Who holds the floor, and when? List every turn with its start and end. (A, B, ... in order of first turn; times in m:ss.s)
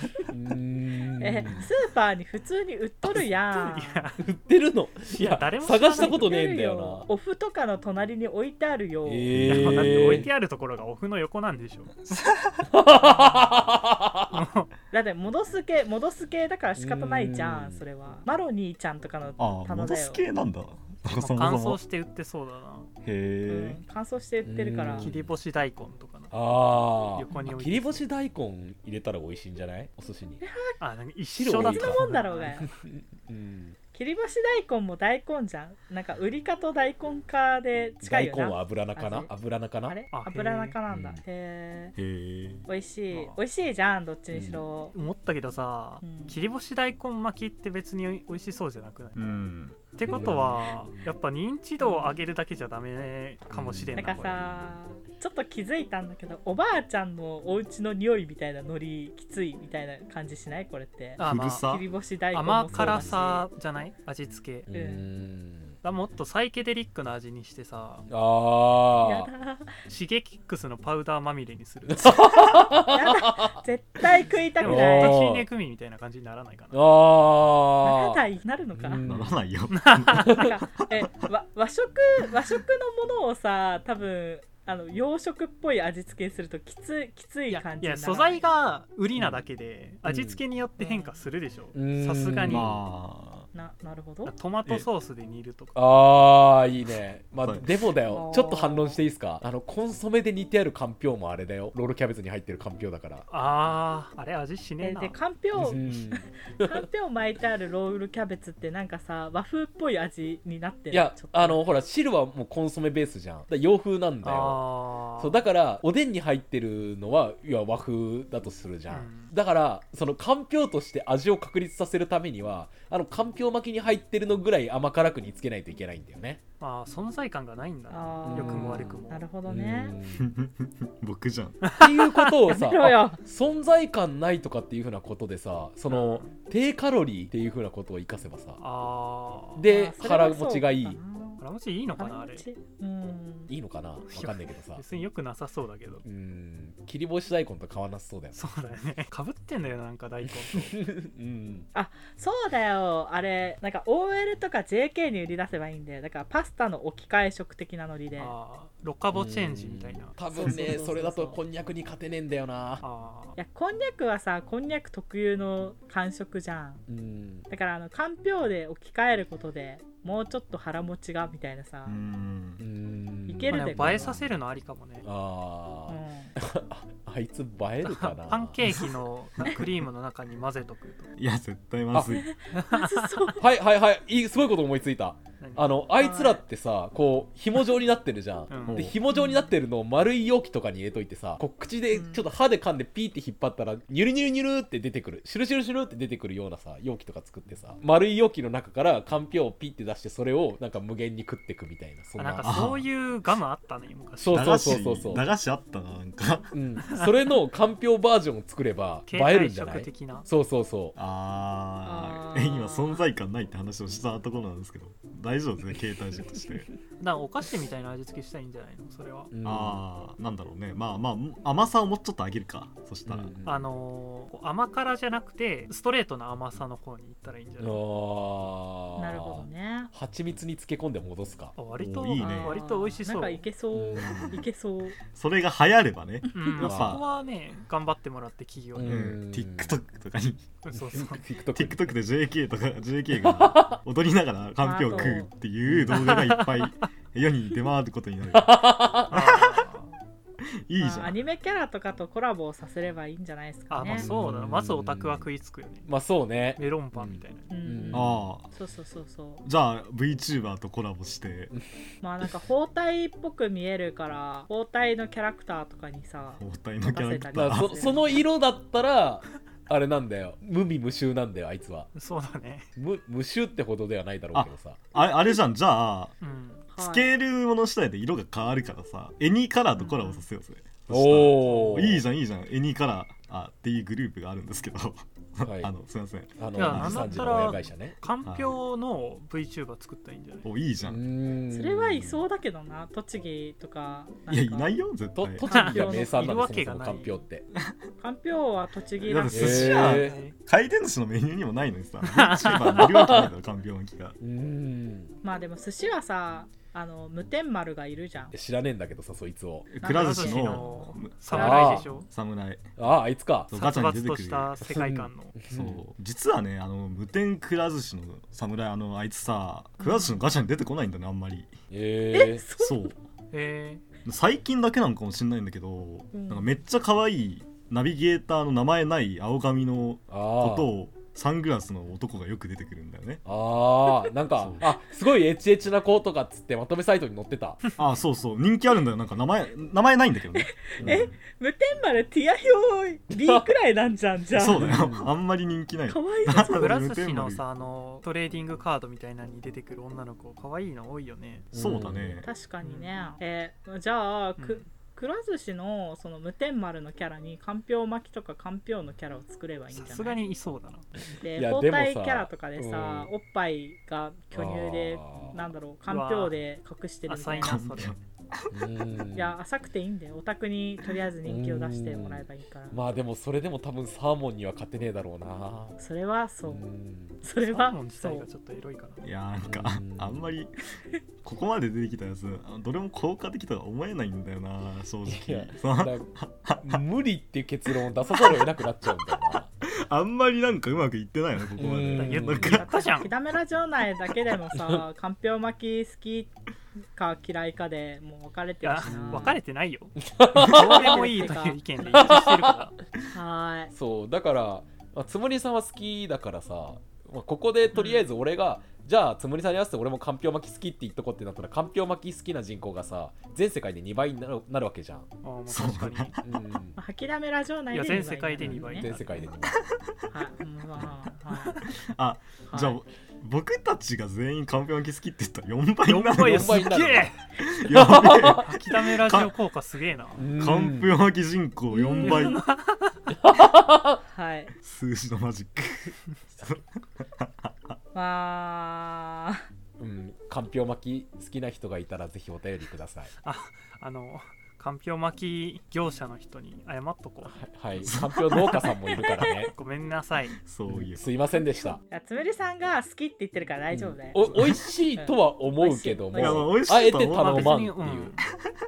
0:00.3-0:01.7 A
0:01.2-0:04.1 B
0:03.5-0:04.2 C
0:04.2-0:07.1 A
0:05.1-0:06.3 C
0:05.9-0:09.3 B
0:09.0-0:10.3 A
0:09.3-0:10.2 D
0:09.4-0:11.9 C
0:12.1-0:12.7 D
0:12.7-0:14.4 A
0:14.3-0:14.7 C
0:14.9-0:20.2 B
0:16.8-0:17.8 A
0:19.4-0:21.8 D
0:21.2-0:22.9 C
0:23.0-0:23.8 D
0:23.5-0:25.1 B
0:24.4-0:25.3 A
0:25.0-0:28.1 C
0:26.3-0:30.4 A
0:30.4-0:30.8 B
0:30.8-0:32.6 C
0:31.3-0:32.0 A
0:31.5-0:32.7 B
0:32.6-0:33.8 A
0:33.9-0:39.3 B
0:38.0-0:40.0 A
0:39.9-0:41.9 B
0:40.1-0:40.8 C
0:40.9-0:41.2 A
0:42.0-0:42.6 D
0:42.7-0:44.9 B
0:43.1-0:43.4 C
0:44.3-0:44.6 A
0:44.9-0:49.3 C
0:46.0-0:46.4 B
0:49.2-0:49.9 D
0:49.9-0:54.5 C
0:50.0-0:51.1 A
0:51.8-0:52.2 B
0:53.5-0:54.7 A
0:54.0-1:03.4 B
1:01.2-1:01.8 C
1:01.2-1:01.8 D
1:02.3-1:04.7 C
1:02.7-1:03.2 A
1:04.7-1:05.8 A
1:04.7-1:05.1 B
1:05.8-1:08.1 C
1:08.1-1:09.3 A
1:09.0-1:09.7 B
1:09.9-1:12.4 C
1:11.9-1:13.6 A
1:12.9-1:15.2 B
1:14.6-1:16.8 C
1:14.6-1:15.4 A
1:16.7-1:18.2 A
1:17.8-1:19.0 B
1:18.8-1:19.4 A
1:19.0-1:21.1 D
1:19.7-1:20.5 C
1:20.3-1:28.4 B
1:27.5-1:32.8 C
1:29.2-1:29.4 A
1:30.0-1:30.4 A
1:30.8-1:31.2 B
1:31.7-1:32.8 A
1:32.4-1:33.5 D
1:33.5-1:34.3 B
1:34.2-1:35.8 C
1:35.8-1:43.2 A
1:37.4-1:37.8 D
1:38.1-1:39.0 B
1:43.3-1:45.2 C
1:44.8-1:51.6 B
1:45.6-1:46.8 A
1:50.9-2:06.4 A
1:54.2-1:55.4 C
1:58.9-1:59.3 C
2:06.6-2:09.3 C
2:07.9-2:10.0 B
2:08.3-2:10.3 A
2:10.1-2:11.6 D
2:11.6-2:12.4 C
2:11.7-2:18.6 A
2:12.5-2:13.2 B
2:15.9-2:16.3 C
2:18.6-2:19.6 C
2:19.6-2:21.0 A
2:19.6-2:21.4 B
2:21.4-2:22.4 C
2:22.0-2:23.5 B
2:23.5-2:24.8 A
2:24.1-2:26.0 C
2:26.0-2:28.4 A
2:28.3-2:30.8 C
2:30.2-2:31.7 A
2:31.7-2:38.3 B
2:38.2-2:40.2 C
2:39.1-2:42.8 A
2:40.3-2:41.4 B
2:42.8-2:43.4 C
2:43.4-2:46.8 B
2:46.9-2:47.4 A
2:47.5-2:52.0 B
2:51.8-2:52.6 D
2:52.6-2:54.3 A
2:53.3-2:54.1 B
2:53.5-2:55.0 C
2:55.0-2:58.6 A
2:55.9-2:56.3 B
2:57.8-3:01.1 C
2:59.4-2:59.7 D
3:01.2-3:02.3 D
3:01.9-3:02.2 A
3:02.1-3:03.4 B
3:02.5-3:03.4 C
3:03.4-3:22.6 A
3:05.4-3:05.8 C
3:06.0-3:06.4 B
3:08.5-3:09.0 C
3:08.7-3:09.0 D
3:09.1-3:09.5 B
3:11.9-3:12.2 B
3:22.2-3:24.8 C
3:22.4-3:22.8 D
3:24.2-3:25.2 A
3:24.3-3:26.5 D
3:26.5-3:31.0 A
3:26.9-3:27.3 C
3:29.1-3:30.3 C
3:31.0-3:36.7 D
3:31.8-3:33.0 B
3:37.0-3:39.3 C
3:39.3-3:39.8 A
3:39.4-3:43.3 D
3:43.0-3:43.7 A
3:43.4-3:47.8 C
3:47.6-3:51.5 A
3:49.0-3:49.9 B
3:51.6-3:53.4 C
3:51.7-3:52.6 D
3:52.2-3:55.0 B
3:53.7-3:54.4 A
3:54.0-3:54.3 D
3:55.1-3:57.0 D
3:56.2-3:56.6 B
3:56.3-3:59.1 C
3:56.6-3:57.0 A
3:58.8-3:59.8 A
3:58.8-4:00.5 D
4:00.6-4:01.2 C
4:00.7-4:01.9 A
4:01.5-4:09.6 D
4:03.2-4:03.8 A
4:04.6-4:05.3 B
4:04.9-4:06.2 A
4:05.9-4:06.7 C
4:08.3-4:09.2 A
4:09.1-4:09.9 C
4:10.6-4:11.2 D
4:10.8-4:14.1 B
4:13.7-4:15.9 C
4:13.8-4:15.3 A
4:15.9-4:18.2 A
4:16.6-4:17.5 C
4:17.5-4:19.4 B
4:17.9-4:18.5 D
4:19.4-4:21.5 D
4:22.0-4:28.2 B
4:26.4-4:28.0 D
4:27.3-4:31.9 A
4:31.9-4:32.7 C
4:32.8-4:34.8 A
4:34.3-4:36.1 D
4:36.2-4:36.6 C
4:36.7-4:37.1 B
4:36.8-4:47.6 D
4:39.8-4:40.2 B
4:40.9-4:42.0 A
4:41.4-4:42.0 C
4:45.4-4:45.7 A
4:46.4-4:48.0 A
4:46.5-4:50.5 C
4:48.2-4:48.5 D
4:50.4-4:51.0 D
4:50.9-4:52.2 A
4:51.5-4:54.8 B
4:54.3-4:55.4 D
4:55.1-4:57.4 A
4:55.4-4:56.4 B
4:55.4-4:57.2 C
4:58.0-5:00.0 B
4:59.0-5:04.2 D
4:59.3-5:00.2 A
4:59.8-5:00.3 C
5:02.0-5:03.3 C
5:02.7-5:03.3 A
5:04.2-5:05.2 A
5:05.2-5:08.3 B
5:08.3-5:09.7 A
5:09.7-5:12.6 D
5:09.8-5:11.7 B
5:09.8-5:12.1 C
5:11.3-5:11.9 A
5:12.8-5:13.6 A
5:13.5-5:14.5 D
5:13.5-5:15.4 C
5:14.7-5:15.8 A
5:15.5-5:21.5 D
5:19.8-5:20.2 B
5:21.7-5:22.4 A
5:22.1-5:22.9 B
5:22.6-5:23.0 D
5:23.3-5:23.8 C
5:24.0-5:33.2 D
5:26.1-5:26.5 B
5:30.1-5:30.7 A
5:33.2-5:37.6 A
5:34.4-5:34.7 D
5:37.8-5:41.1 D
5:40.3-5:44.7 B
5:40.8-5:41.0 A
5:43.2-5:43.4 A
5:44.3-5:47.4 D
5:44.5-5:45.1 A
5:45.9-5:46.7 B
5:46.5-5:51.5 C
5:51.5-5:52.2 A
5:51.5-5:52.3 D
5:52.2-6:00.2 B
5:52.6-5:52.9 C
5:54.4-5:54.6 C
5:59.7-6:00.9 C
6:01.1-6:03.1 A
6:01.2-6:07.7 B
6:04.3-6:05.4 A
6:05.9-6:06.4 C
6:07.1-6:07.9 C
6:07.4-6:08.5 D
6:08.5-6:09.4 A
6:09.1-6:12.8 B
6:11.2-6:15.8 A
6:15.8-6:16.6 B
6:16.5-6:17.2 A
6:17.2-6:18.3 B
6:17.4-6:19.0 C
6:19.0-6:20.5 D
6:19.4-6:20.3 A
6:21.2-6:26.8 D
6:25.0-6:29.5 A
6:27.7-6:28.5 D
6:29.1-6:32.7 D
6:31.6-6:32.6 A
6:31.9-6:33.1 C
6:32.4-6:36.3 B
6:34.6-6:34.8 A
6:36.9-6:39.4 B
6:38.6-6:42.7 C
6:38.8-6:39.4 A
6:40.0-6:41.2 A
6:40.4-6:42.1 B
6:41.9-6:42.6 A
6:43.1-6:43.7 B
6:43.7-6:55.1 A
6:47.7-6:48.1 C
6:55.2-6:56.2 C
6:55.5-6:56.4 D
6:56.2-6:56.8 A
6:56.8-6:58.9 B
6:57.7-6:59.3 C
6:58.4-6:59.6 A
6:59.5-6:59.9 D
7:00.1-7:01.7 B
7:01.6-7:06.7 D
7:02.5-7:02.8 B
7:05.8-7:07.2 C
7:06.2-7:08.4 A
7:07.4-7:09.3 D
7:08.2-7:10.3 C
7:10.2-7:10.9 A
7:10.3-7:12.4 D
7:11.7-7:12.4 B
7:12.0-7:13.0 C
7:13.2-7:14.0 A
7:14.0-7:14.5 B
7:14.6-7:17.5 D
7:17.9-7:19.4 B
7:19.8-7:23.1 A
7:23.2-7:27.4 C
7:27.3-7:29.5 A
7:27.8-7:28.6 D
7:29.3-7:30.4 C
7:30.4-7:31.1 D
7:30.7-7:31.8 A
7:31.9-7:36.5 B
7:33.7-7:38.1 A
7:34.2-7:34.6 D
7:36.1-7:37.6 D
7:37.1-7:38.3 C